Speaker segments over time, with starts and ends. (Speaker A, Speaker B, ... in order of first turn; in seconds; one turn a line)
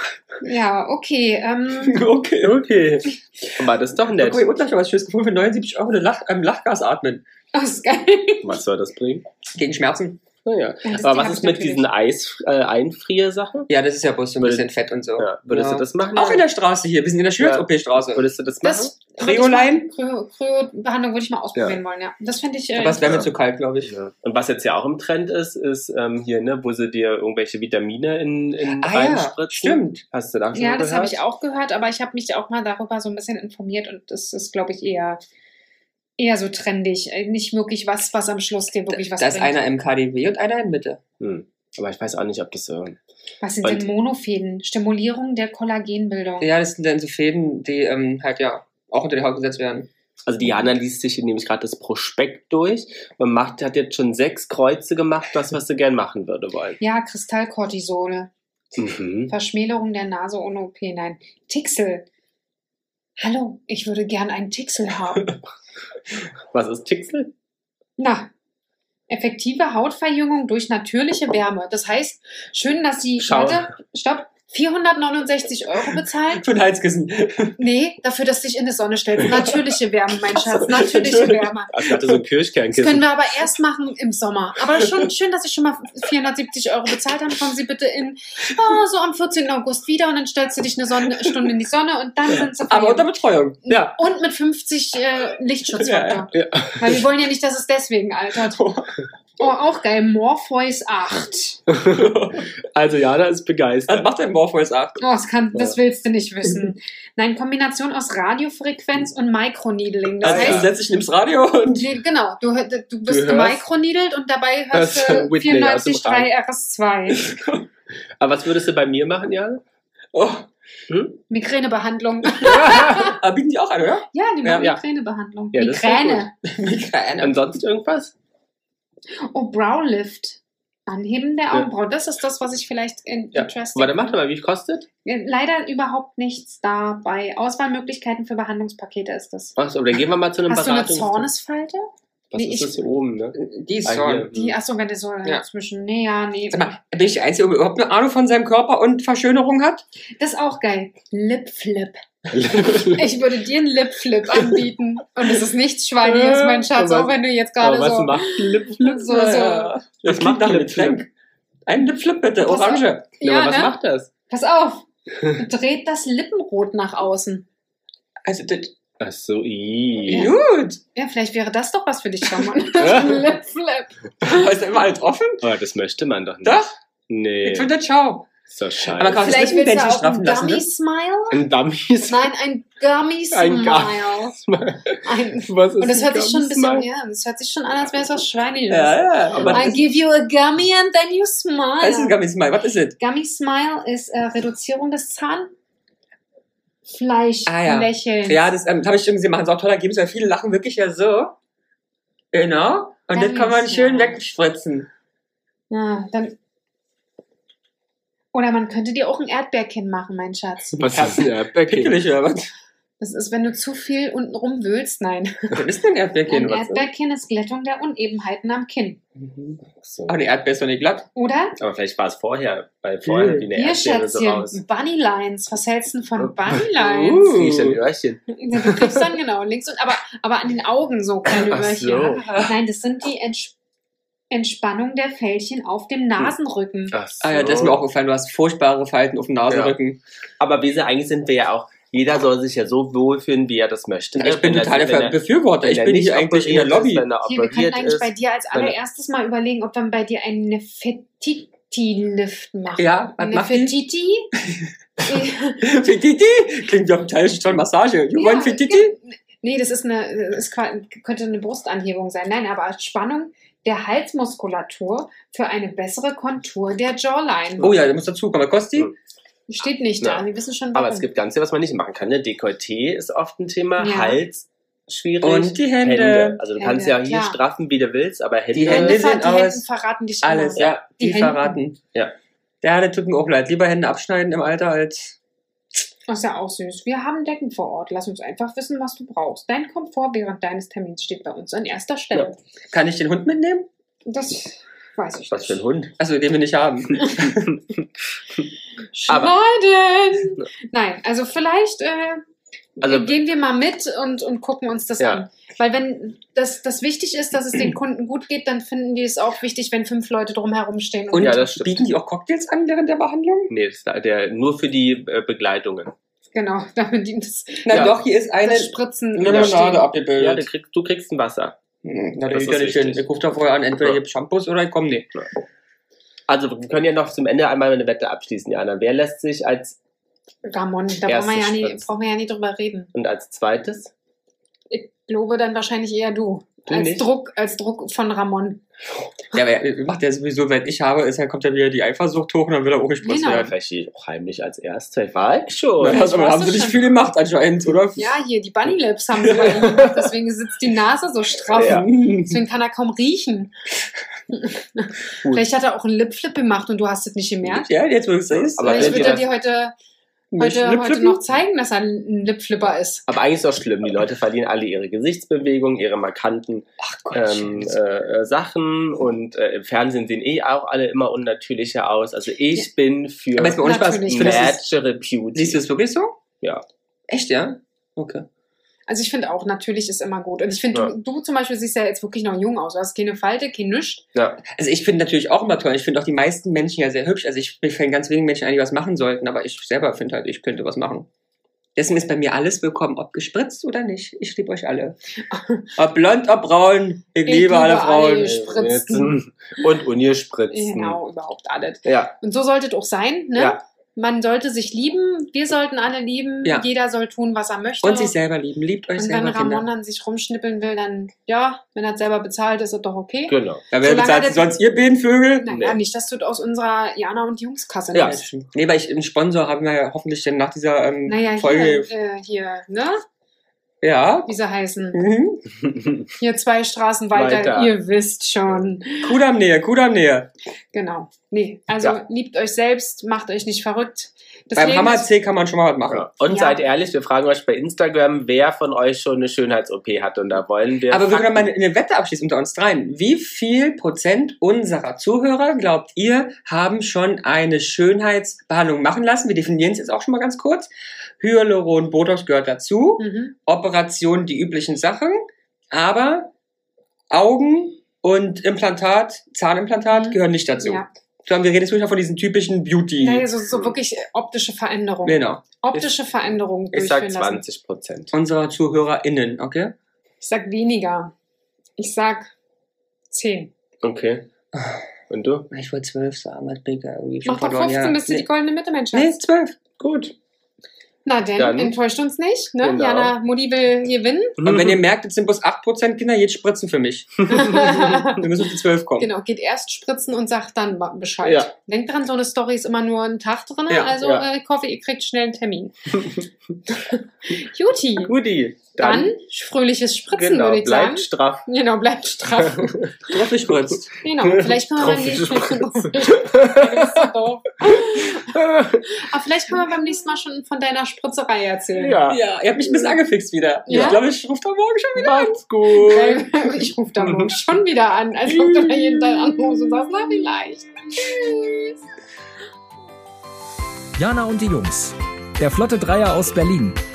Speaker A: 0.4-2.0
Speaker B: 1.8-2.6
Speaker C: 2.4-4.5
Speaker B: 4.2-7.2
Speaker A: 7.5-8.6
Speaker C: 8.4-9.2
Speaker B: 9.5-10.2
Speaker C: 10.4-13.7
Speaker A: 10.8-11.9
Speaker B: 13.7-18.3
Speaker C: 14.4-14.7
Speaker C: 15.2-16.4
Speaker C: 17.4-18.9
Speaker A: 18.6-23.2
Speaker B: 19.2-19.9
Speaker B: 22.7-23.9
Speaker C: 23.0-23.3
Speaker C: 23.8-31.2
Speaker B: 28.8-30.0
Speaker A: 30.5-35.2
Speaker A: 36.2-39.6
Speaker B: 38.9-41.0
Speaker C: 41.2-43.0
Speaker A: 43.4-46.5
Speaker B: 46.4-49.9
Speaker C: 50.2-56.8
Speaker A: 56.8-58.3
Speaker C: 58.8-59.3
Speaker A: 59.3-62.0
Speaker A: 63.2-65.4
Speaker C: 66.5-67.3
Speaker A: 68.0-68.3
Speaker A: 69.1-76.4
Speaker C: 73.2-73.7
Speaker B: 76.3-77.6
Speaker A: 77.6-81.7
Speaker B: 80.4-82.2
Speaker C: 81.7-83.1
Speaker A: 82.7-93.1
Speaker B: 92.7-93.6
Speaker A: 93.7-98.7
Speaker C: 93.7-94.0
Speaker B: 95.8-96.2
Speaker C: 96.3-97.0
Speaker B: 98.5-98.9
Speaker A: 99.4-101.6
Speaker C: 101.7-104.1
Speaker B: 102.0-102.4
Speaker B: 103.9-105.0
Speaker A: 105.0-110.7
Speaker B: 110.2-112.0
Speaker C: 110.2-110.7
Speaker A: 111.8-117.2
Speaker C: 113.1-113.6
Speaker C: 114.7-116.3
Speaker B: 117.2-117.6
Speaker C: 118.2-119.6
Speaker B: 120.1-120.5
Speaker C: 120.9-121.2
Speaker A: 121.3-123.2
Speaker B: 122.5-124.7
Speaker C: 122.6-122.9
Speaker A: 124.1-126.3
Speaker C: 125.5-126.3
Speaker B: 126.4-127.4
Speaker C: 127.2-128.1
Speaker A: 129.2-134.2
Speaker C: 133.3-134.9
Speaker A: 135.0-139.6
Speaker C: 139.6-141.3
Speaker A: 140.4-142.8
Speaker C: 142.3-144.6
Speaker B: 143.3-144.3
Speaker A: 144.3-146.7
Speaker B: 146.5-149.8
Speaker A: 150.2-152.0
Speaker C: 152.3-153.1
Speaker A: 152.6-159.8
Speaker C: 156.0-159.3
Speaker B: 159.1-161.1
Speaker C: 160.0-161.0
Speaker B: 161.7-163.1
Speaker A: 162.4-163.8
Speaker C: 163.2-164.1
Speaker A: 164.3-167.4
Speaker B: 168.2-168.7
Speaker C: 169.0-170.3
Speaker A: 170.1-170.4
Speaker B: 170.1-170.8
Speaker A: 170.9-174.5
Speaker C: 172.8-173.3
Speaker B: 174.2-175.4
Speaker C: 175.4-177.7
Speaker B: 176.4-176.7
Speaker B: 177.4-178.3
Speaker C: 178.5-179.4
Speaker B: 178.9-180.6
Speaker A: 179.2-181.4
Speaker C: 181.3-182.3
Speaker A: 182.1-184.4
Speaker C: 183.3-186.9
Speaker A: 185.0-192.2
Speaker B: 188.7-189.8
Speaker C: 189.3-189.8
Speaker B: 191.8-192.9
Speaker A: 193.0-195.5
Speaker A: 196.9-198.4
Speaker B: 197.5-201.3
Speaker B: 202.3-204.9
Speaker A: 203.1-204.2
Speaker A: 205.7-206.4
Speaker A: 208.3-210.9
Speaker C: 210.8-212.0
Speaker B: 211.6-212.5
Speaker A: 213.0-215.6
Speaker B: 215.5-216.9
Speaker A: 216.3-219.0
Speaker B: 219.2-221.1
Speaker C: 219.8-220.2
Speaker A: 221.1-221.6
Speaker C: 221.6-224.6
Speaker B: 223.1-223.4
Speaker A: 223.5-227.4
Speaker C: 226.2-229.0
Speaker B: 227.1-227.8
Speaker A: 228.3-233.5
Speaker C: 231.3-232.4
Speaker A: 234.3-236.9
Speaker C: 236.9-237.8
Speaker B: 237.2-240.0
Speaker C: 239.5-239.8
Speaker C: 240.4-248.8
Speaker B: 244.2-247.1
Speaker A: 247.2-254.3
Speaker B: 252.8-253.8
Speaker A: 255.0-255.7
Speaker B: 255.6-258.9
Speaker A: 258.1-267.7
Speaker C: 267.6-267.9
Speaker B: 267.6-268.9
Speaker A: 269.5-271.1
Speaker C: 270.0-279.1
Speaker A: 273.8-274.2
Speaker B: 275.2-276.4
Speaker A: 276.6-277.4
Speaker B: 278.5-279.6
Speaker A: 278.6-281.6
Speaker B: 280.2-281.8
Speaker B: 282.6-285.1
Speaker A: 286.1-292.4
Speaker B: 292.7-293.7
Speaker A: 294.1-295.6
Speaker C: 295.3-295.9
Speaker B: 296.0-297.6
Speaker A: 298.9-302.2
Speaker C: 299.1-299.3
Speaker A: 302.8-311.5
Speaker C: 302.8-303.1
Speaker C: 305.0-305.2
Speaker B: 311.1-313.5
Speaker C: 311.2-311.9
Speaker C: 313.5-315.9
Speaker A: 316.3-319.8
Speaker B: 317.6-320.4
Speaker C: 317.7-317.9
Speaker C: 319.3-319.6
Speaker C: 320.2-321.6
Speaker B: 321.8-325.1
Speaker C: 322.3-323.0
Speaker C: 326.3-329.8
Speaker A: 330.4-332.9
Speaker C: 331.1-331.8
Speaker C: 332.9-333.9
Speaker A: 334.7-338.6
Speaker C: 336.7-337.1
Speaker B: 339.3-343.4
Speaker A: 343.0-343.5
Speaker C: 343.1-346.1
Speaker B: 345.8-348.2
Speaker A: 345.8-346.9
Speaker A: 348.0-353.5
Speaker C: 349.2-350.1
Speaker C: 351.5-352.1
Speaker B: 351.5-352.3
Speaker A: 354.3-357.7
Speaker B: 357.5-359.2
Speaker C: 358.3-359.3
Speaker A: 358.6-359.7
Speaker B: 360.3-361.2
Speaker A: 360.4-363.1
Speaker C: 363.1-375.6
Speaker B: 366.8-367.8
Speaker B: 373.3-374.6
Speaker A: 373.6-374.6
Speaker B: 375.3-376.2
Speaker B: 377.1-378.2
Speaker A: 378.9-384.0
Speaker C: 384.1-384.4
Speaker B: 384.5-391.1
Speaker B: 391.8-394.9
Speaker A: 395.3-395.6
Speaker B: 395.8-398.4
Speaker A: 397.3-399.2
Speaker C: 398.2-401.0
Speaker A: 400.5-408.1
Speaker C: 401.8-402.1
Speaker B: 407.8-409.7
Speaker A: 409.0-414.5
Speaker C: 413.3-413.6
Speaker B: 413.7-415.5
Speaker A: 415.4-418.2
Speaker C: 415.5-415.8
Speaker B: 417.9-421.9
Speaker A: 421.1-423.0
Speaker B: 423.8-424.3
Speaker A: 424.2-425.0
Speaker B: 424.9-425.4
Speaker C: 425.6-426.1
Speaker A: 426.2-429.2
Speaker C: 427.1-427.7
Speaker B: 429.0-430.3
Speaker A: 430.7-435.1
Speaker B: 434.6-436.1
Speaker C: 435.9-441.5
Speaker A: 436.3-436.6
Speaker B: 440.9-450.7
Speaker B: 451.2-456.3
Speaker A: 453.0-453.3
Speaker B: 457.1-463.3
Speaker A: 459.9-460.9
Speaker A: 463.0-467.4
Speaker B: 465.0-465.4
Speaker C: 466.7-468.1
Speaker B: 468.1-469.7
Speaker A: 470.2-471.1
Speaker A: 471.8-472.3
Speaker A: 473.1-473.5
Speaker C: 473.8-474.3
Speaker C: 475.1-475.5
Speaker B: 475.5-478.3
Speaker A: 477.2-479.2
Speaker B: 478.9-479.6
Speaker C: 479.8-480.1
Speaker A: 481.0-484.4
Speaker C: 481.4-481.7
Speaker C: 482.6-483.1
Speaker C: 484.4-484.8
Speaker B: 484.4-489.1
Speaker A: 487.3-488.2
Speaker A: 489.0-496.1
Speaker C: 491.2-491.5
Speaker B: 493.7-493.9
Speaker C: 494.0-494.3
Speaker A: 496.7-498.1
Speaker C: 498.0-499.1
Speaker A: 498.8-502.9
Speaker C: 500.1-501.5
Speaker C: 502.4-502.9
Speaker B: 503.1-504.0
Speaker A: 504.0-512.0
Speaker C: 504.2-507.1
Speaker C: 507.7-508.9
Speaker C: 511.8-512.2
Speaker B: 512.0-515.4
Speaker A: 513.7-514.0
Speaker C: 513.7-514.0
Speaker C: 515.0-517.4
Speaker A: 515.7-521.8
Speaker C: 518.3-520.0
Speaker D: 524.0-526.8